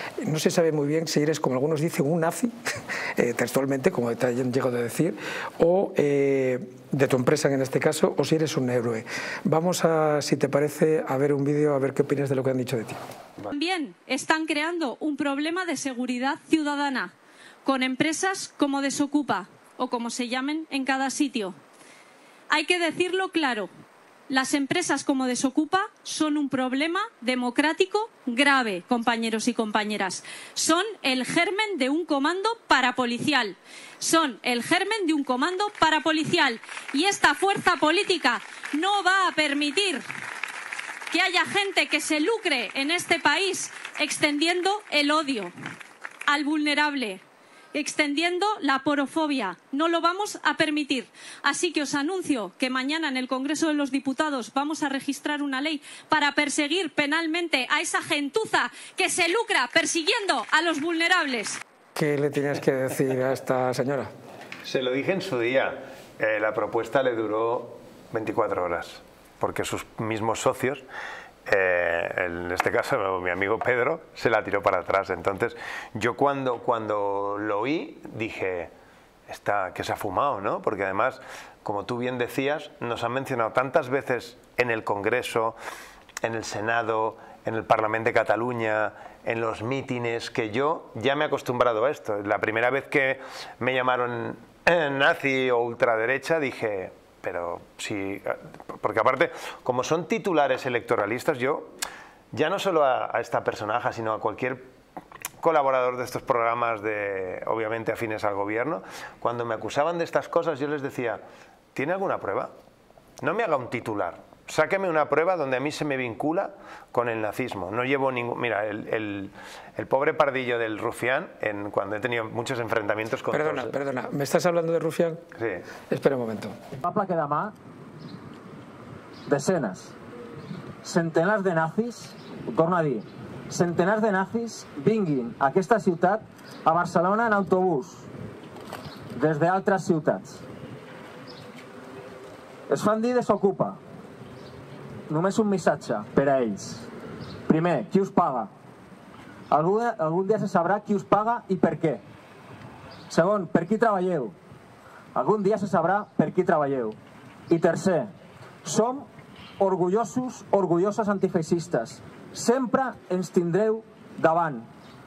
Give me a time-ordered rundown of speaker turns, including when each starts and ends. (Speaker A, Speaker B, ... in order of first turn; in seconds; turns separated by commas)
Speaker A: 0.2-2.5, Speaker A: 3.2-13.0, Speaker B: 13.5-17.1, Speaker B: 17.6-21.6, Speaker B: 22.5-23.7, Speaker B: 24.3-40.0, Speaker B: 41.1-45.5, Speaker B: 46.3-47.2, Speaker B: 47.7-61.6, Speaker A: 62.0-64.1, Speaker C: 64.7-70.8, Speaker C: 71.5-78.7, Speaker C: 79.3-85.6, Speaker C: 86.2-101.7, Speaker C: 102.3-104.6, Speaker C: 105.4-111.2, Speaker C: 111.8-112.5, Speaker C: 113.2-123.8, Speaker A: 123.3-125.2, Speaker C: 125.3-125.6, Speaker A: 125.9-126.5, Speaker D: 126.8-127.5, Speaker D: 129.3-129.9, Speaker D: 130.8-138.1, Speaker D: 139.1-140.4, Speaker D: 142.7-143.8, Speaker D: 145.1-146.9, Speaker D: 147.5-148.5, Speaker D: 149.5-152.0, Speaker D: 153.1-154.3, Speaker D: 155.1-157.0, Speaker D: 157.5-158.1, Speaker D: 158.6-159.1, Speaker D: 159.6-164.7